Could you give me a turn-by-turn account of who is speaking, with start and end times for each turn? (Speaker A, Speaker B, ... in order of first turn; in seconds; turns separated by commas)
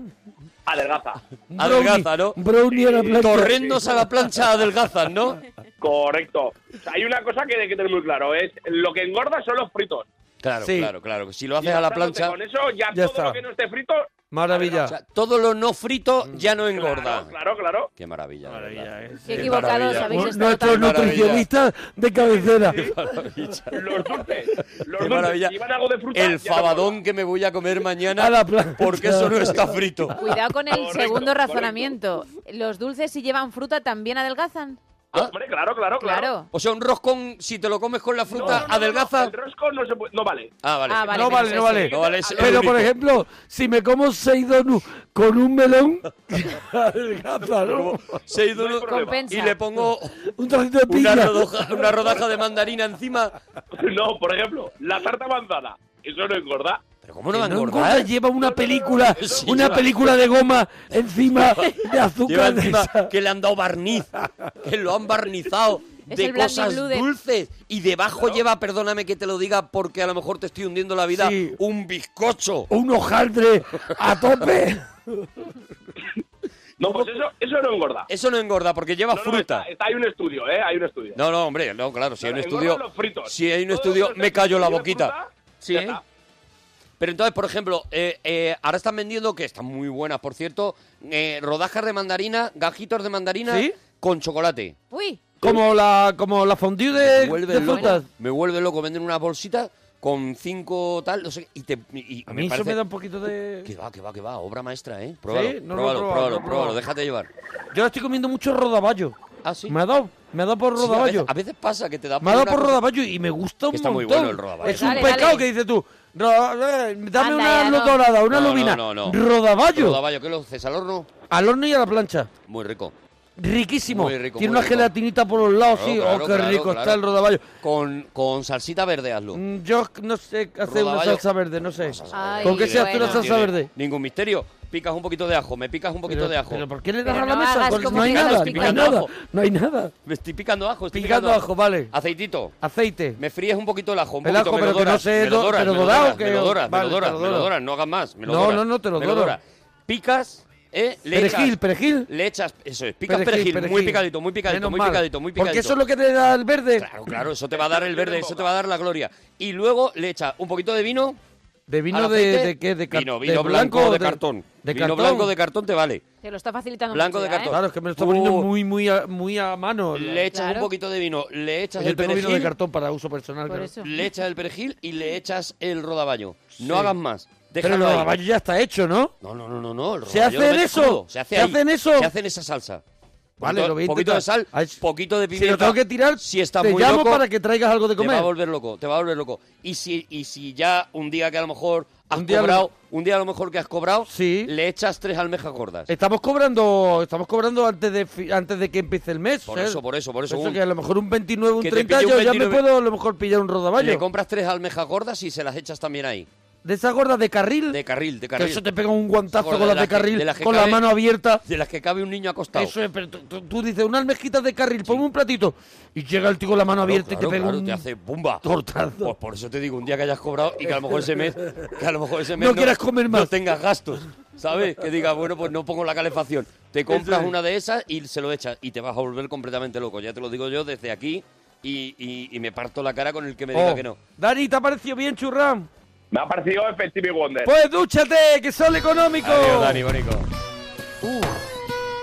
Speaker A: 0.7-1.2, Speaker B: 1.5-3.7, Speaker C: 1.6-2.4, Speaker A: 2.7-3.8, Speaker C: 3.2-5.4, Speaker A: 5.8-10.1, Speaker C: 10.4-12.4, Speaker B: 10.6-10.9, Speaker A: 11.6-14.9, Speaker B: 12.9-13.4, Speaker B: 14.3-14.9, Speaker C: 14.9-17.3, Speaker A: 16.7-17.9, Speaker C: 17.9-21.4, Speaker B: 18.5-22.9, Speaker D: 19.3-21.2, Speaker C: 22.7-24.2, Speaker A: 23.7-27.0, Speaker C: 25.0-25.6, Speaker C: 26.1-30.2, Speaker B: 28.2-29.7, Speaker D: 30.2-34.8, Speaker A: 30.7-31.9, Speaker A: 35.1-36.3, Speaker D: 36.0-36.5, Speaker C: 36.5-39.3, Speaker A: 38.3-40.5, Speaker C: 40.6-41.1, Speaker D: 40.9-42.0, Speaker B: 41.1-48.0, Speaker A: 41.7-42.6, Speaker C: 41.9-42.9, Speaker C: 47.6-50.2, Speaker A: 48.5-49.1, Speaker D: 48.9-49.6, Speaker B: 50.3-51.8, Speaker C: 50.9-53.4, Speaker A: 53.7-56.8, Speaker C: 57.0-58.1, Speaker B: 57.3-63.1, Speaker A: 58.4-59.9, Speaker C: 59.0-60.1, Speaker C: 61.4-61.7, Speaker C: 62.3-72.7, Speaker D: 66.1-67.1, Speaker B: 71.1-71.6, Speaker B: 72.7-74.9, Speaker A: 76.8-78.1, Speaker C: 78.1-79.7, Speaker A: 79.1-81.2, Speaker C: 81.2-86.0, Speaker A: 82.2-86.0, Speaker C: 87.0-94.7, Speaker B: 93.5-93.8, Speaker D: 94.9-95.2, Speaker B: 95.4-98.1, Speaker C: 97.0-102.8, Speaker D: 97.6-98.0, Speaker B: 102.3-103.7, Speaker C: 103.6-107.3, Speaker B: 105.3-106.8, Speaker B: 107.7-109.2, Speaker C: 109.4-109.8, Speaker B: 109.7-111.3, Speaker C: 110.8-112.8, Speaker B: 112.2-120.0, Speaker C: 113.7-115.3, Speaker D: 114.6-115.5, Speaker D: 117.2-118.0, Speaker C: 118.3-119.2, Speaker C: 119.7-121.1, Speaker B: 121.3-122.3, Speaker C: 122.5-122.9, Speaker B: 123.4-127.5, Speaker C: 123.9-124.9, Speaker C: 125.7-127.0, Speaker C: 127.6-129.4, Speaker B: 129.3-133.7, Speaker C: 130.7-131.2, Speaker C: 131.8-136.6, Speaker D: 132.1-133.3, Speaker B: 136.1-139.9, Speaker D: 137.1-138.9, Speaker C: 137.7-139.1, Speaker C: 140.1-142.6, Speaker B: 140.9-141.9, Speaker B: 142.6-143.2, Speaker C: 143.2-151.6, Speaker B: 144.2-147.5, Speaker B: 148.2-149.4, Speaker B: 151.1-152.1, Speaker C: 152.1-155.8, Speaker B: 153.1-156.9, Speaker C: 156.8-161.2, Speaker A: 157.5-158.5, Speaker B: 161.7-165.3, Speaker C: 161.9-166.0, Speaker D: 166.2-167.6, Speaker C: 166.9-168.5, Speaker B: 167.5-170.2, Speaker C: 169.9-172.5, Speaker D: 170.3-170.7, Speaker B: 171.8-173.7, Speaker D: 173.5-173.9, Speaker C: 173.8-178.1, Speaker B: 176.6-176.9, Speaker B: 177.6-179.1, Speaker C: 179.2-182.8, Speaker B: 180.1-182.1, Speaker B: 183.4-184.8, Speaker C: 183.4-187.2, Speaker B: 185.3-188.3, Speaker C: 188.0-195.9, Speaker B: 192.1-192.7, Speaker B: 194.1-194.5, Speaker B: 195.9-204.1, Speaker C: 199.5-200.6, Speaker C: 201.6-202.6, Speaker C: 203.8-206.3, Speaker B: 206.6-207.8, Speaker C: 207.7-208.6, Speaker B: 208.4-211.4, Speaker C: 209.3-210.8, Speaker C: 211.4-212.7, Speaker B: 212.5-217.8, Speaker C: 216.8-218.5, Speaker B: 218.4-219.1, Speaker C: 219.0-234.0, Speaker B: 222.4-223.3, Speaker B: 226.9-227.3, Speaker B: 233.5-235.7, Speaker A: 236.1-237.5, Speaker B: 237.4-239.8, Speaker C: 239.2-240.3, Speaker B: 241.0-241.4